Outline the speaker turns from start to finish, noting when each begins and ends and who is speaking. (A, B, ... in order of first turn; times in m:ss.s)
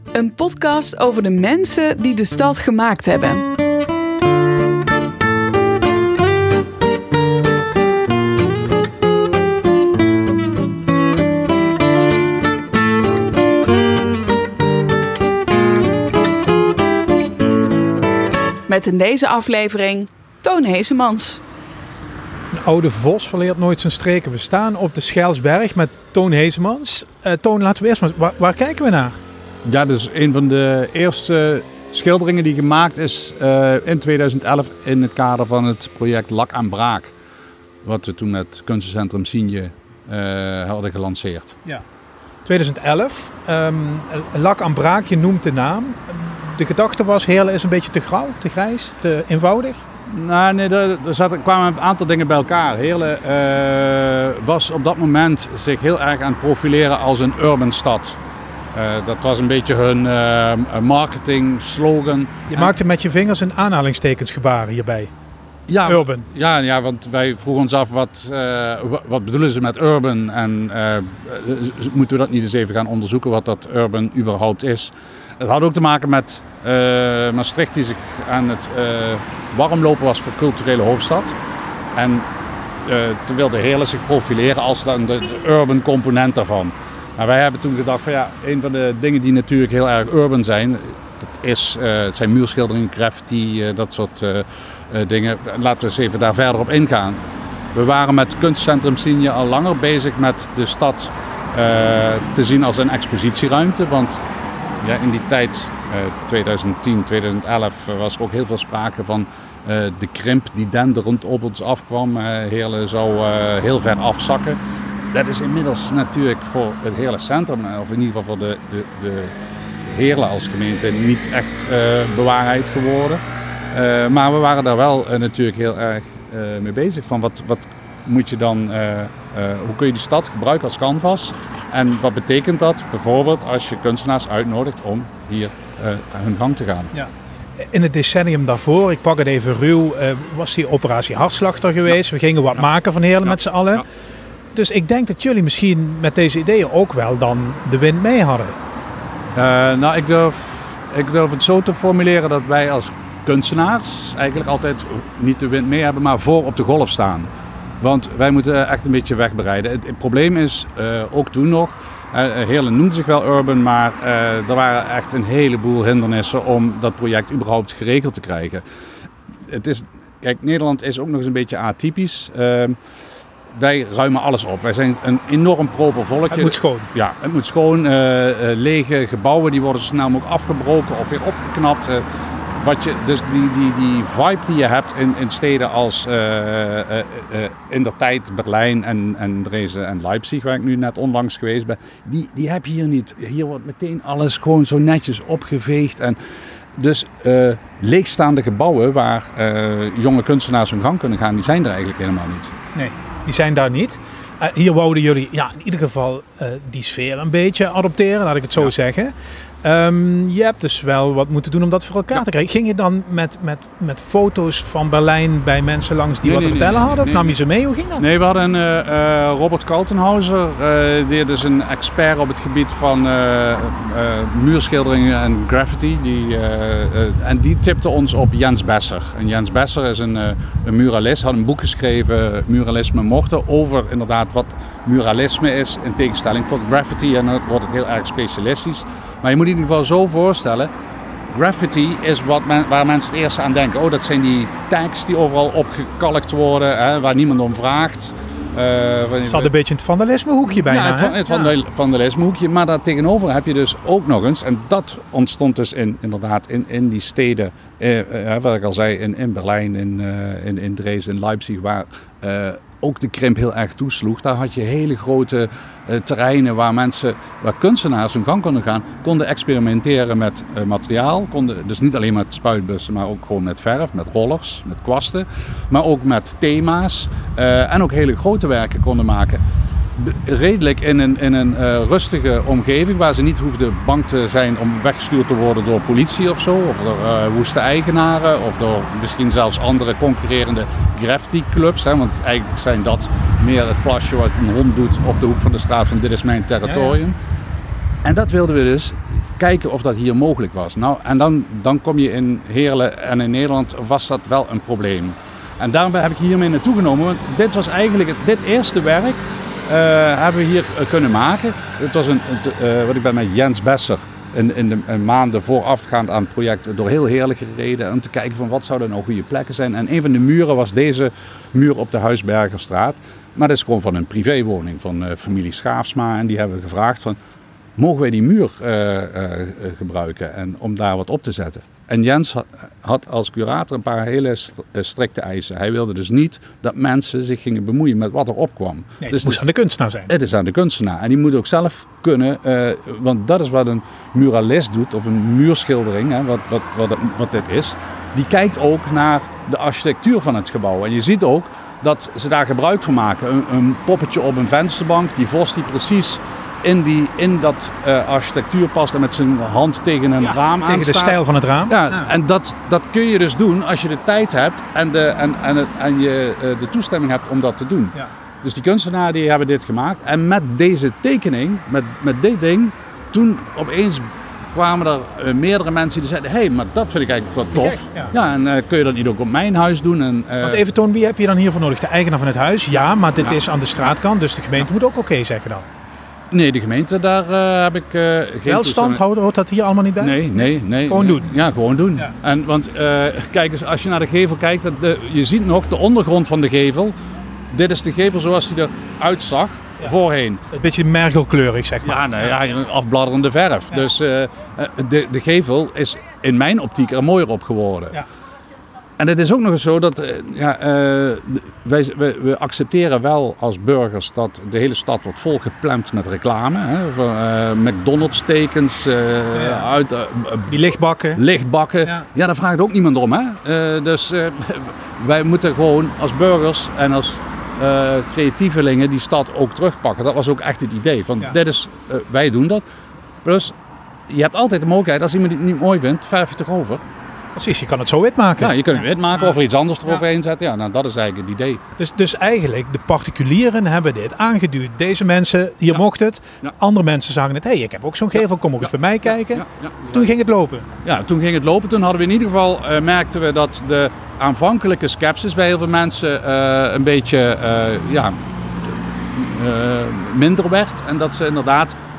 0:00.1-0:03.5 A
0:18.7-0:21.4 A
0:22.5-0:29.2 B
0:29.6-0:37.1 C
0:37.8-0:41.6 C
0:42.4-0:49.8 B
0:50.1-0:58.2 C
0:58.7-1:02.7 C
1:02.5-1:05.1 B
1:05.7-1:21.4 C
1:05.9-1:06.2 B
1:22.0-1:22.3 C
1:22.8-1:37.2 C
1:37.7-1:44.2 C
1:44.8-1:54.6 C
1:55.1-2:16.9 C
2:16.9-2:23.8 B
2:23.2-2:23.8 C
2:24.5-2:28.6 B
2:29.4-2:37.3 C
2:37.8-2:48.6 C
2:49.4-2:52.8 C
2:53.5-3:02.0 C
2:56.3-2:56.9 B
3:02.6-3:16.2 C
3:16.8-3:22.5 C
3:22.8-3:38.1 B
3:36.2-3:37.4 C
3:38.0-4:00.7 C
4:01.3-4:09.5 C
4:09.3-4:11.5 B
4:10.5-4:39.4 C
4:40.0-4:57.2 C
4:56.6-4:57.0 B
4:58.0-5:27.2 C
5:27.8-5:39.4 C
5:39.0-5:40.1 B
5:40.1-6:20.6 C
6:00.3-6:02.1 B
6:17.6-6:18.1 B
6:20.4-6:25.7 B
6:26.3-6:29.0 C
6:28.5-6:31.3 B
6:30.0-6:37.0 C
6:37.5-6:40.4 C
6:40.5-6:42.3 B
6:41.8-6:48.0 C
6:49.0-7:00.6 C
6:59.3-6:59.7 B
7:00.5-7:01.2 B
7:01.2-7:12.6 C
7:13.2-7:13.5 C
7:14.1-7:16.8 C
7:17.4-7:18.6 B
7:18.4-7:21.6 C
7:21.8-7:30.7 B
7:28.6-7:30.1 C
7:30.8-7:41.8 C